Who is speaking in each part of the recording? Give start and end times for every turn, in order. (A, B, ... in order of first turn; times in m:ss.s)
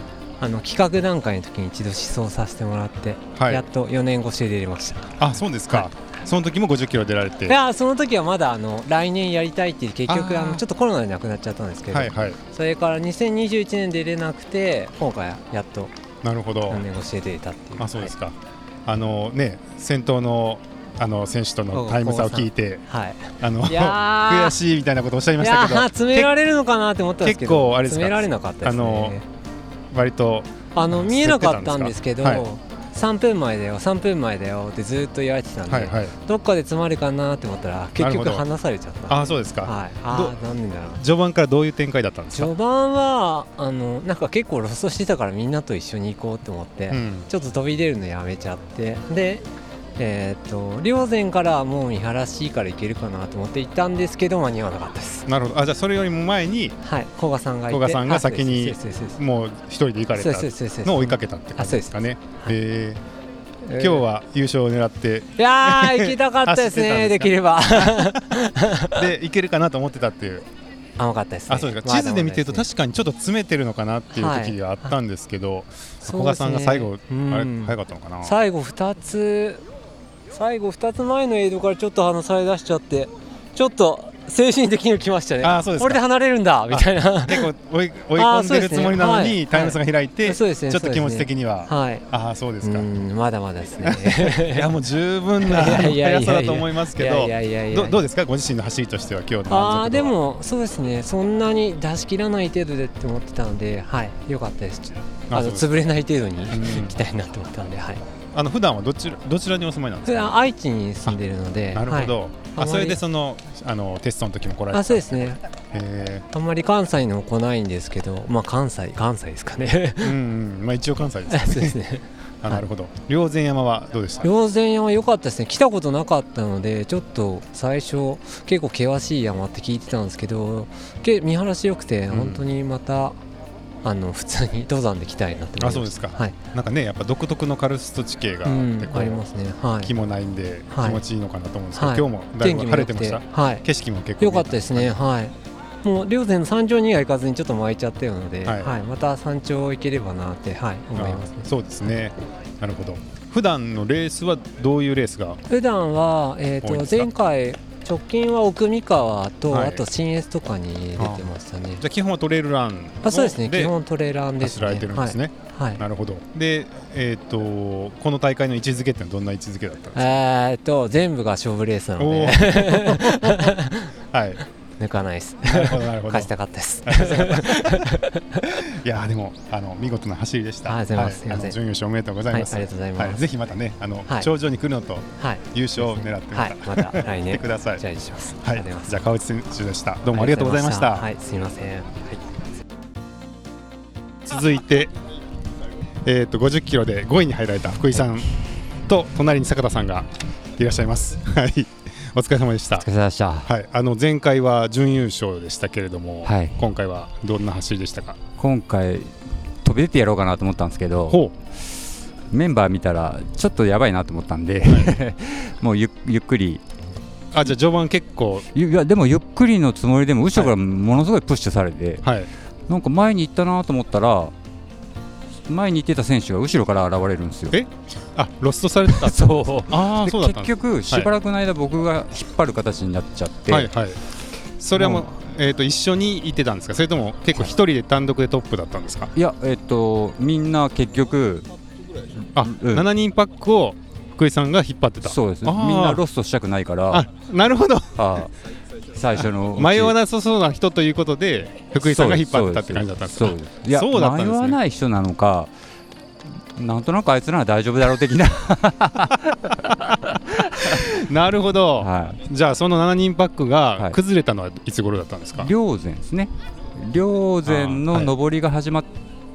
0:00.4-0:05.2 A
0:03.3-0:03.7 B
0:05.2-0:07.6 B
0:07.5-0:15.9 A
0:10.1-0:10.6 B
0:11.9-0:12.4 B
0:16.2-0:16.8 B
0:16.7-0:18.1 A
0:17.8-0:22.8 B
0:21.7-0:24.6 A
0:23.4-0:26.3 B
0:25.4-0:29.2 A
0:27.2-0:29.2 B
0:29.9-0:32.5 B
0:30.7-0:41.0 A
0:35.7-0:36.1 B
0:38.0-0:38.4 B
0:39.1-0:40.4 B
0:41.0-0:42.5 B
0:42.3-0:49.4 A
0:46.9-0:47.3 B
0:50.0-0:55.2 A
0:55.3-0:56.8 B
0:56.8-0:59.2 A
0:57.7-1:03.0 B
1:00.2-1:02.5 A
1:03.6-1:04.0 A
1:03.7-1:08.4 B
1:05.4-1:09.0 A
1:08.9-1:10.4 B
1:11.0-1:12.6 A
1:11.5-1:18.4 B
1:14.1-1:14.9 A
1:16.0-1:19.6 A
1:20.3-1:27.5 A
1:25.4-1:26.0 B
1:26.7-1:32.9 B
1:28.2-1:32.0 A
1:32.6-1:34.7 A
1:33.8-1:40.2 B
1:35.5-1:38.0 A
1:39.5-1:48.0 A
1:45.3-1:45.8 B
1:46.5-1:47.0 B
1:48.3-1:50.4 B
1:50.0-1:53.0 A
1:51.7-1:56.2 B
1:54.7-1:55.4 A
1:56.3-2:00.2 A
2:00.0-2:01.8 B
2:01.3-2:02.6 A
2:02.4-2:04.3 B
2:04.2-2:13.2 A
2:12.1-2:12.4 B
2:13.8-2:16.4 A
2:15.6-2:19.2 B
2:18.4-2:19.9 A
2:19.8-2:25.0 B
2:20.7-2:21.0 A
2:21.7-2:23.6 A
2:24.2-2:31.5 A
2:28.4-2:28.8 B
2:30.9-2:35.4 B
2:35.5-2:41.8 A
2:36.6-2:37.1 B
2:39.5-2:39.8 B
2:41.0-2:41.2 B
2:41.8-2:43.7 B
2:43.0-2:45.8 A
2:44.4-2:50.2 B
2:50.0-2:53.9 A
2:52.0-2:53.6 B
2:54.1-2:54.4 B
2:54.8-2:58.1 A
2:55.4-2:56.3 B
2:56.8-2:57.9 B
2:58.5-3:07.8 B
3:00.6-3:01.6 A
3:02.3-3:03.2 A
3:05.2-3:08.9 A
3:08.4-3:11.1 B
3:10.1-3:12.2 A
3:14.2-3:14.9 B
3:16.0-3:18.3 B
3:18.8-3:22.9 B
3:22.8-3:23.5 C
3:23.4-3:28.2 B
3:26.2-3:26.6 C
3:28.4-3:29.1 C
3:29.6-3:31.2 C
3:32.3-3:36.6 C
3:34.6-3:34.9 B
3:37.3-3:38.5 B
3:38.5-3:42.1 C
3:42.0-3:42.3 B
3:42.7-3:44.3 C
3:45.5-3:47.6 C
3:47.5-3:51.1 B
3:48.9-3:53.7 C
3:53.5-3:54.0 B
3:54.6-3:59.1 B
3:54.8-3:55.0 C
3:59.1-4:01.5 C
4:02.3-4:02.9 C
4:02.4-4:06.0 B
4:05.0-4:07.1 C
4:06.9-4:08.0 B
4:08.0-4:08.3 C
4:08.9-4:10.0 C
4:09.6-4:14.6 B
4:11.8-4:15.5 C
4:16.5-4:20.8 C
4:20.7-4:25.5 B
4:21.8-4:22.2 C
4:25.4-4:28.9 C
4:27.4-4:28.1 B